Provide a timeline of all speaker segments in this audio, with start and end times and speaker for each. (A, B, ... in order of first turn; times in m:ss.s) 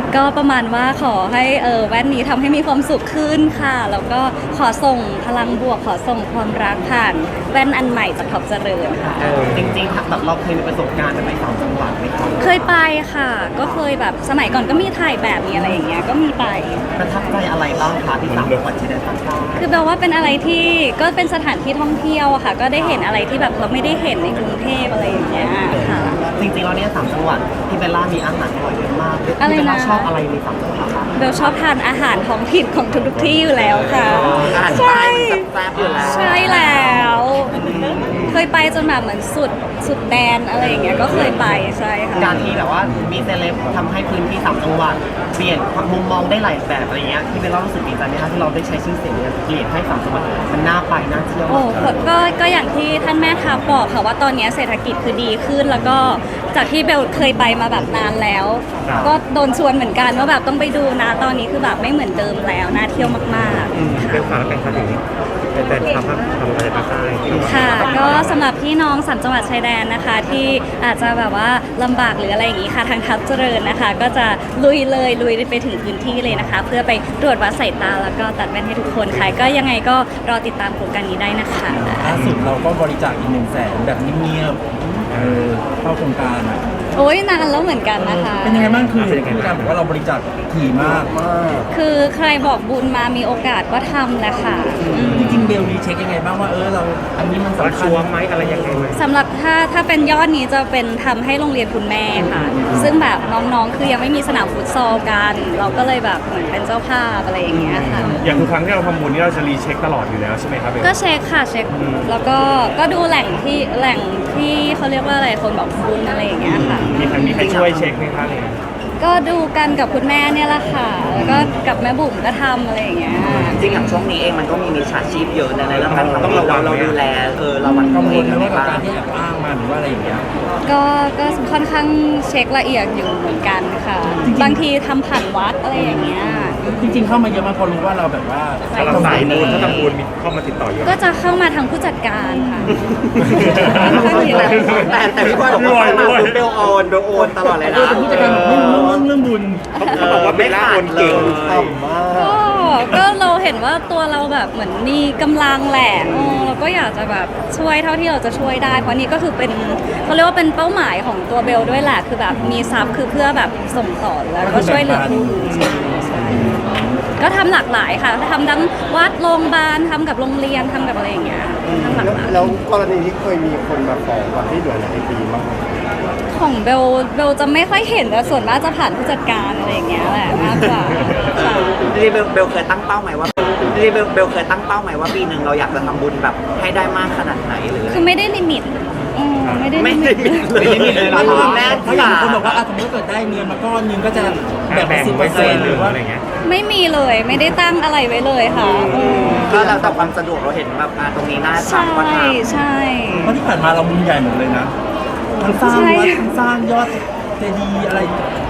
0:00.1-0:09.3 A
0:09.2-0:12.8 B
0:09.2-0:09.8 C
0:12.4-0:16.9 A
0:13.6-0:13.9 B
0:15.5-0:15.8 B
0:17.0-0:19.7 B
0:18.2-0:18.7 C
0:19.5-0:26.2 A
0:22.7-0:23.2 B
0:25.7-0:26.3 D
0:26.4-0:31.6 B
0:29.4-0:30.1 A
0:31.1-0:37.6 A
0:33.9-0:34.9 B
0:34.4-0:37.1 E
0:35.8-0:36.5 B
0:37.5-0:38.3 B
0:37.6-0:38.0 E
0:38.3-0:42.5 A
0:40.6-0:41.4 B
0:42.1-0:52.1 B
0:51.5-1:04.4 A
0:58.8-0:59.2 B
1:03.7-1:08.4 C
1:07.4-1:22.2 A
1:19.1-1:19.4 C
1:21.7-1:26.6 F
1:22.1-1:22.5 C
1:25.1-1:25.5 C
1:27.0-1:28.8 A
1:28.0-1:31.1 F
1:28.8-1:29.8 C
1:30.8-1:31.7 D
1:31.7-1:35.5 A
1:34.9-1:35.4 C
1:35.1-1:38.1 F
1:37.6-1:39.0 C
1:38.9-1:48.2 A
1:42.5-1:42.9 F
1:47.5-1:50.9 C
1:50.8-1:57.3 A
1:51.7-1:52.1 C
1:56.5-1:58.0 E
1:56.5-1:58.6 C
1:59.0-2:03.6 A
2:01.2-2:01.5 E
2:03.4-2:08.9 E
2:03.5-2:03.9 C
2:05.7-2:07.0 C
2:06.0-2:06.3 D
2:07.7-2:08.3 A
2:07.8-2:10.3 F
2:10.6-2:17.0 A
2:14.2-2:14.6 F
2:15.8-2:16.7 B
2:16.7-2:19.9 F
2:18.7-2:19.9 A
2:18.8-2:21.0 C
2:20.8-2:22.8 A
2:22.4-2:22.7 F
2:23.2-2:26.6 C
2:23.3-2:29.1 E
2:23.3-2:25.1 A
2:23.5-2:25.0 F
2:24.0-2:24.5 D
2:25.2-2:26.2 D
2:25.6-2:27.2 B
2:27.2-2:27.6 D
2:27.6-2:29.7 F
2:29.8-2:31.5 C
2:29.8-2:30.1 A
2:30.0-2:31.8 E
2:31.0-2:32.5 D
2:32.1-2:46.6 A
2:38.6-2:38.9 F
2:44.4-2:47.1 F
2:47.2-2:52.6 A
2:51.8-2:55.7 D
2:56.3-3:01.8 A
3:01.0-3:01.3 C
3:01.4-3:08.1 E
3:07.9-3:11.5 A
3:09.4-3:09.7 C
3:09.8-3:12.6 E
3:10.6-3:16.0 F
3:14.7-3:16.2 C
3:16.4-3:19.6 A
3:18.7-3:20.2 D
3:18.8-3:19.6 C
3:18.9-3:22.4 E
3:21.6-3:23.4 A
3:23.2-3:24.7 F
3:25.4-3:28.3 F
3:25.5-3:26.4 A